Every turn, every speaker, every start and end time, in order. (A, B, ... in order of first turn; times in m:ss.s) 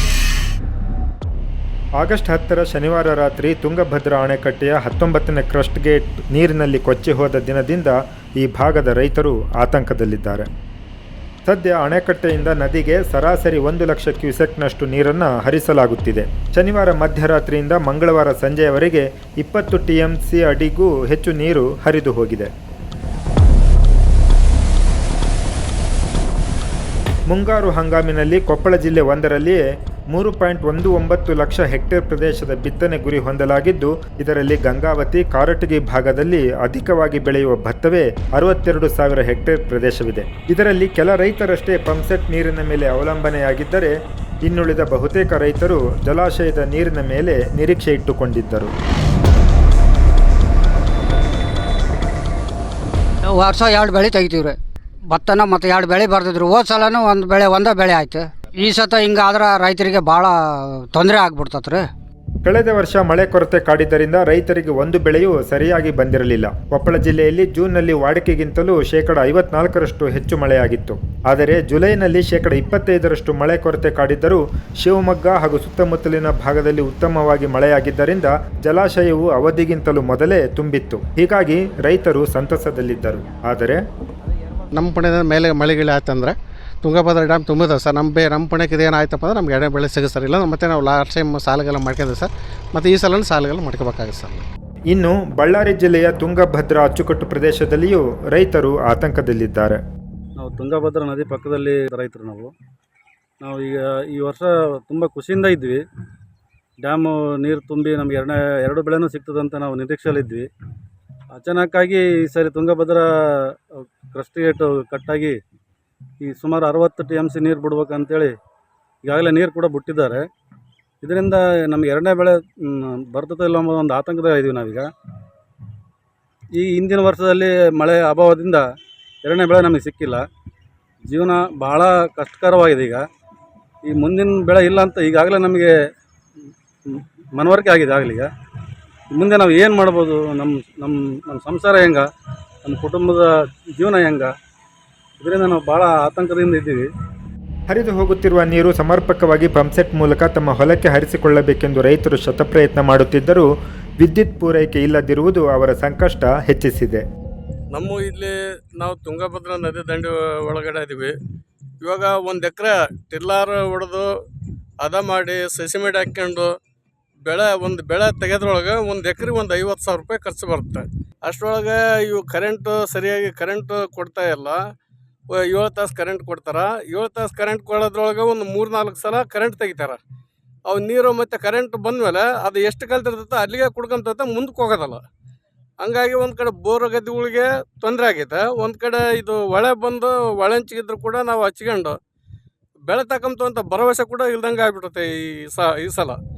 0:02.0-0:10.5 A
0:11.5-0:22.5 A
0:27.3-0:48.7 A
0:53.3-0:54.6 B
0:55.1-1:01.9 B
1:02.4-1:23.8 A
1:24.7-1:34.4 C
1:34.9-1:39.8 A
1:40.4-1:42.5 D
1:43.4-1:45.8 D
1:46.8-1:50.5 D
1:51.3-1:53.5 D
1:54.1-1:55.4 D
1:56.2-1:58.3 D
1:59.0-2:00.2 D
2:01.0-2:04.9 D
2:06.6-2:08.6 D
2:09.2-2:10.2 D
2:11.1-2:13.0 D
2:13.9-2:15.7 D
2:16.8-2:18.3 D
2:19.1-2:22.1 D
2:22.6-2:24.3 D
2:25.2-2:26.8 D
2:27.7-2:33.5 A
2:34.0-2:37.0 A
2:37.7-2:41.1 E
2:41.8-2:44.1 E
2:44.8-2:46.5 E
2:47.2-2:54.6 E
2:55.4-3:00.0 E
3:00.7-3:05.0 E
3:05.8-3:11.9 E
3:12.9-3:16.2 E